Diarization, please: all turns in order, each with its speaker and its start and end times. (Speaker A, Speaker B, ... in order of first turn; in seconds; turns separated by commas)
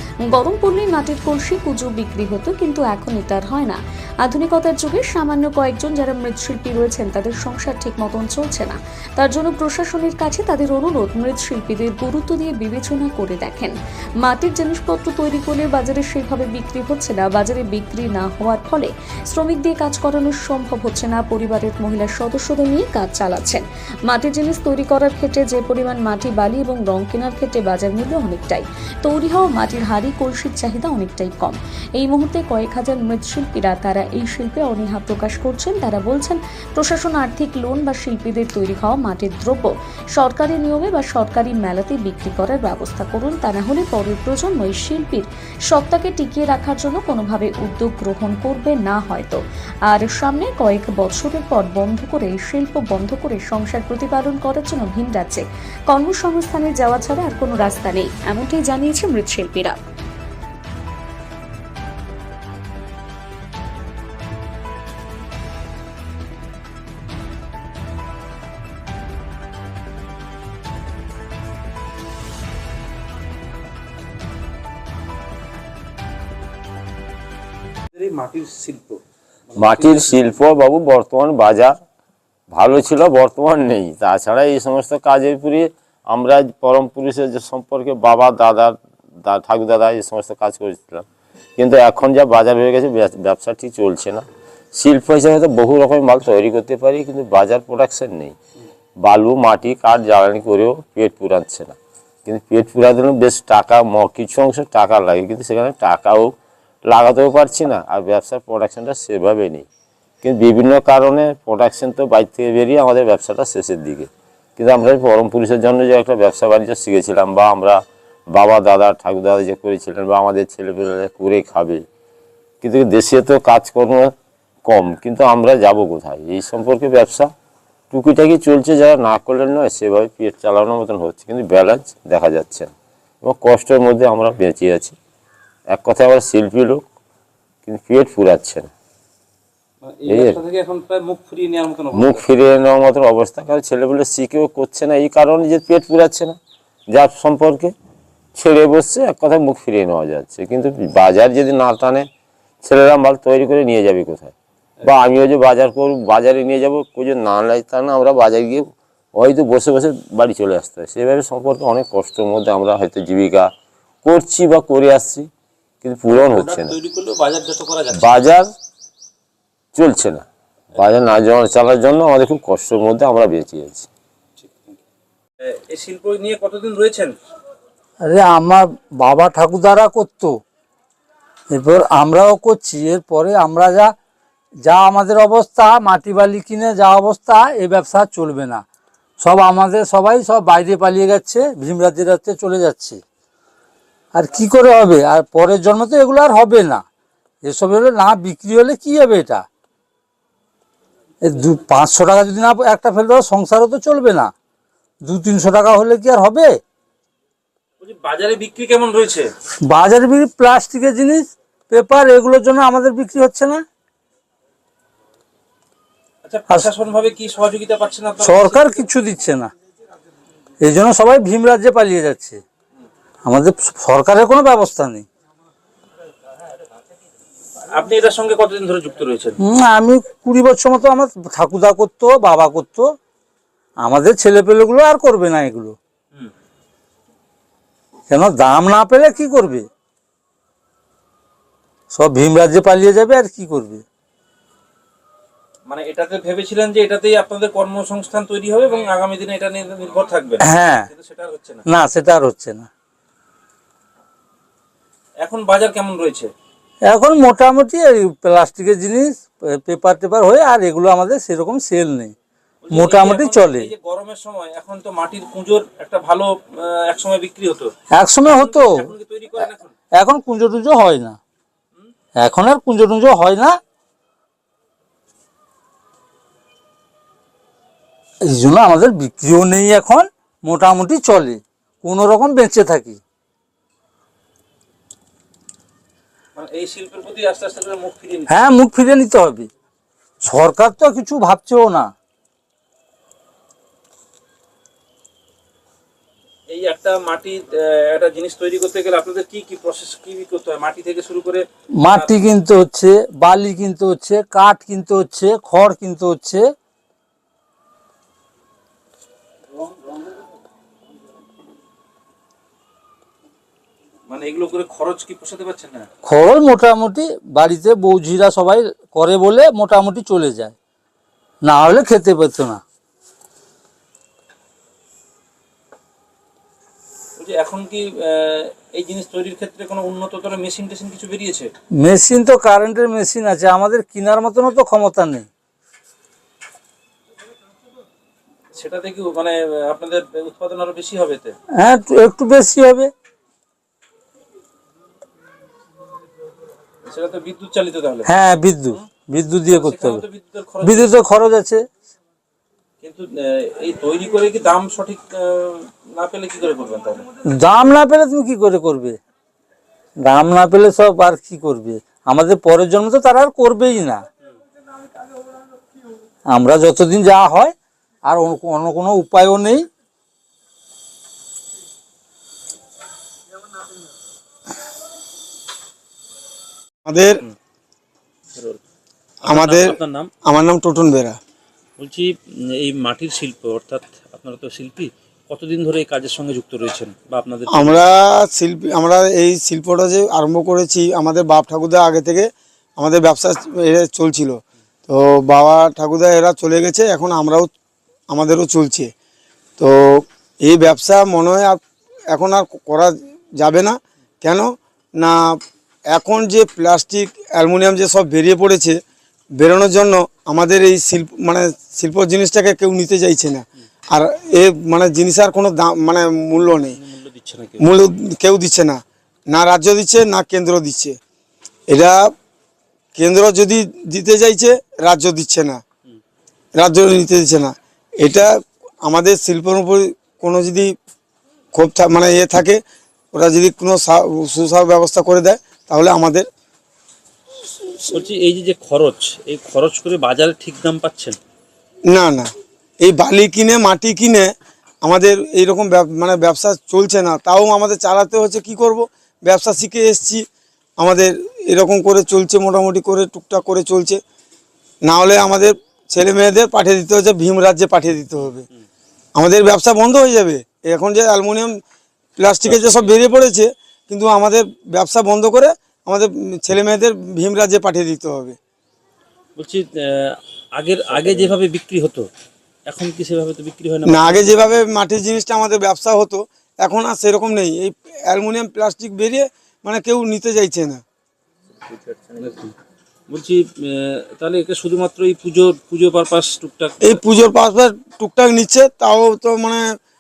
Speaker A: 0.3-59.8, Speaker B: 77.9-79.0, Speaker B: 79.5-80.1, Speaker C: 79.6-81.7, Speaker C: 82.5-98.4, Speaker C: 99.0-106.3, Speaker C: 106.8-109.7, Speaker C: 110.2-121.8, Speaker C: 122.6-124.1, Speaker C: 124.7-127.3, Speaker C: 127.9-132.7, Speaker C: 133.2-135.0, Speaker C: 135.7-136.9, Speaker C: 137.7-138.7, Speaker B: 139.8-142.2, Speaker C: 140.1-140.4, Speaker C: 141.9-146.4, Speaker C: 146.9-147.7, Speaker C: 148.3-152.1, Speaker C: 152.6-163.5, Speaker C: 164.0-165.3, Speaker C: 165.8-166.8, Speaker B: 166.1-168.2, Speaker C: 167.9-168.5, Speaker C: 169.7-173.9, Speaker B: 174.4-174.8, Speaker B: 175.5-177.1, Speaker D: 178.0-180.4, Speaker D: 181.5-183.9, Speaker D: 184.6-188.7, Speaker D: 189.2-193.0, Speaker D: 194.1-196.8, Speaker D: 197.4-199.5, Speaker D: 201.2-204.3, Speaker D: 205.0-206.6, Speaker B: 207.8-209.3, Speaker D: 209.6-213.6, Speaker B: 216.2-218.8, Speaker D: 218.2-219.5, Speaker D: 220.6-222.4, Speaker D: 223.2-225.1, Speaker B: 227.8-229.4, Speaker D: 229.4-232.9, Speaker D: 233.8-235.8, Speaker D: 238.1-239.7, Speaker D: 241.9-243.8, Speaker B: 245.7-251.6, Speaker D: 250.4-250.9, Speaker D: 251.7-252.7, Speaker B: 255.2-256.3, Speaker D: 256.9-262.1, Speaker B: 262.6-267.7, Speaker D: 262.7-263.7, Speaker D: 267.9-268.9, Speaker B: 268.2-269.8, Speaker D: 269.9-271.2, Speaker D: 272.2-273.6, Speaker D: 278.2-283.0, Speaker B: 286.4-288.4, Speaker D: 288.3-289.5, Speaker D: 290.2-291.9, Speaker B: 296.5-302.1, Speaker D: 301.8-306.4, Speaker B: 314.1-315.9, Speaker D: 316.1-320.6, Speaker D: 321.4-322.6, Speaker B: 327.2-331.5, Speaker D: 331.8-335.3, Speaker B: 338.6-341.4, Speaker D: 341.6-342.9, Speaker B: 346.9-348.1, Speaker D: 348.1-350.0, Speaker B: 349.5-350.9, Speaker D: 350.6-351.6, Speaker B: 352.8-357.1, Speaker D: 357.3-359.0, Speaker D: 360.0-364.0, Speaker D: 366.3-369.7, Speaker E: 376.9-377.2, Speaker B: 377.0-377.4, Speaker B: 378.3-378.6, Speaker E: 379.2-381.2, Speaker B: 379.2-380.1, Speaker B: 381.8-387.8, Speaker E: 387.5-397.5, Speaker E: 398.1-398.9, Speaker E: 399.6-401.6, Speaker E: 402.1-405.4, Speaker E: 405.9-408.8, Speaker E: 409.4-416.8, Speaker B: 416.5-417.7, Speaker E: 417.6-421.0, Speaker E: 421.7-422.1, Speaker E: 423.0-425.6, Speaker E: 426.6-430.8, Speaker E: 431.5-432.6, Speaker E: 433.1-436.3, Speaker B: 437.9-441.2, Speaker E: 441.9-442.3, Speaker E: 442.8-444.3, Speaker E: 444.8-450.2, Speaker E: 450.8-454.0, Speaker E: 454.9-458.4, Speaker E: 459.2-461.5, Speaker E: 462.2-468.4, Speaker B: 462.5-462.9, Speaker B: 469.4-472.1, Speaker B: 472.7-474.6, Speaker E: 473.9-480.8, Speaker B: 481.7-482.5, Speaker B: 483.1-487.0, Speaker E: 486.8-489.7